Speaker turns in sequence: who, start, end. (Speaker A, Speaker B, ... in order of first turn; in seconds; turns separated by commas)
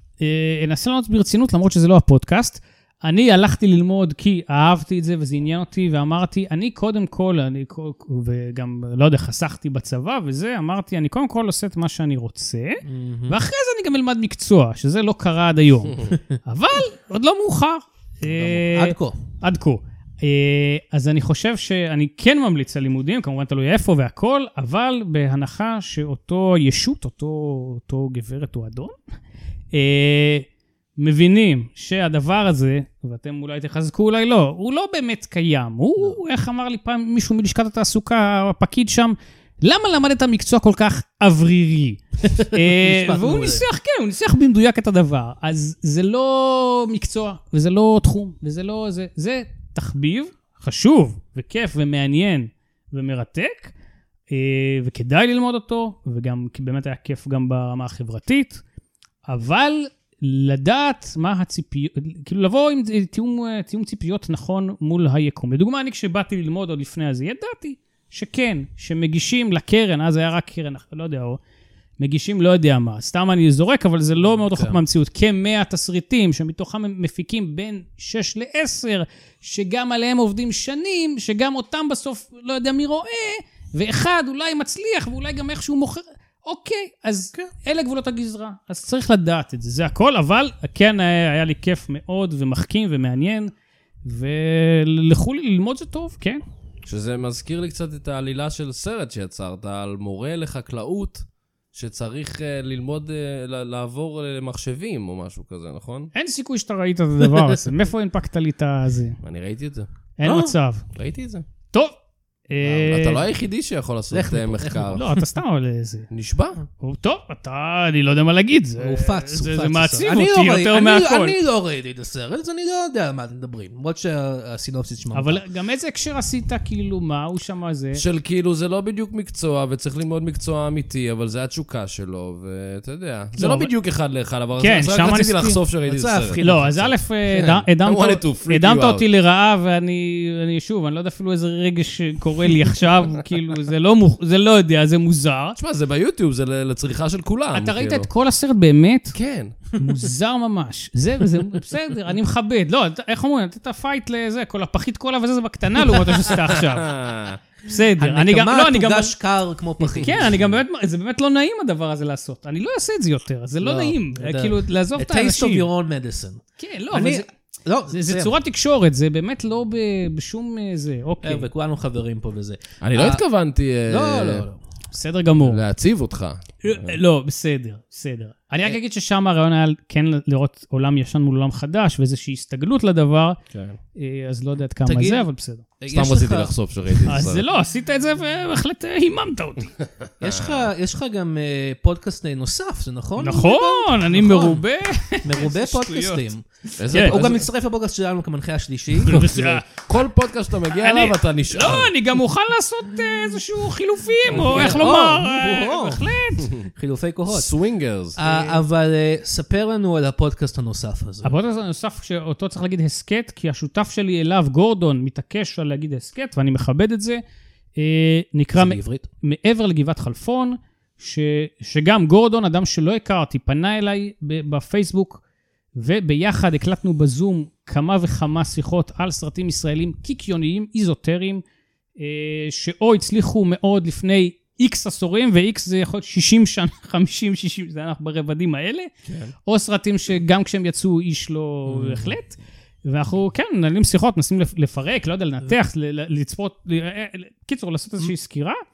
Speaker A: 0.2-29.0, Speaker B: 12.8-13.4, Speaker B: 18.3-19.2, Speaker A: 29.7-30.5, Speaker A: 31.0-53.7, Speaker B: 42.2-43.6, Speaker A: 54.3-58.6, Speaker A: 59.2-71.4, Speaker A: 72.0-93.5, Speaker B: 74.3-74.8, Speaker A: 94.0-96.4, Speaker C: 96.8-106.1, Speaker A: 106.1-109.2, Speaker C: 109.2-109.9, Speaker A: 110.2-110.8, Speaker B: 110.2-110.5, Speaker C: 110.9-111.4, Speaker A: 111.7-112.0, Speaker A: 112.5-113.2, Speaker C: 112.7-115.0, Speaker B: 114.1-115.1, Speaker A: 114.9-116.1, Speaker C: 116.1-116.6, Speaker A: 116.8-121.4, Speaker B: 118.8-125.4, Speaker A: 125.1-128.0, Speaker C: 127.9-136.4, Speaker A: 133.4-133.7, Speaker A: 134.6-135.6, Speaker B: 135.9-137.6, Speaker A: 136.4-145.6, Speaker C: 137.8-139.0, Speaker C: 145.6-148.1, Speaker A: 147.5-149.2, Speaker C: 149.1-149.6, Speaker A: 149.8-156.9, Speaker C: 156.3-157.4, Speaker A: 157.6-159.1, Speaker B: 158.0-160.4, Speaker A: 160.0-165.7, Speaker B: 163.6-168.3, Speaker A: 166.6-167.2, Speaker A: 167.9-171.5, Speaker B: 171.2-173.2, Speaker C: 172.8-174.4, Speaker B: 173.9-174.6, Speaker A: 174.9-175.6, Speaker C: 175.4-177.0, Speaker A: 176.6-183.4, Speaker C: 183.5-183.8, Speaker A: 183.9-185.6, Speaker B: 184.8-185.2, Speaker B: 185.8-186.5, Speaker C: 185.9-187.4, Speaker A: 187.1-189.7, Speaker C: 190.0-190.7, Speaker B: 190.2-194.6, Speaker A: 193.2-196.3, Speaker B: 195.2-199.5, Speaker C: 196.8-197.5, Speaker A: 196.9-197.2, Speaker A: 199.0-199.6, Speaker C: 199.4-201.9, Speaker A: 200.8-206.5, Speaker C: 204.3-204.7, Speaker B: 204.3-207.5, Speaker C: 207.3-208.2, Speaker B: 208.2-211.3, Speaker A: 208.3-208.5, Speaker A: 211.2-217.2, Speaker A: 217.8-225.2, Speaker B: 218.5-219.1, Speaker A: 225.7-231.4, Speaker A: 232.0-238.9, Speaker C: 239.1-239.3, Speaker A: 239.4-248.6, Speaker B: 241.7-242.2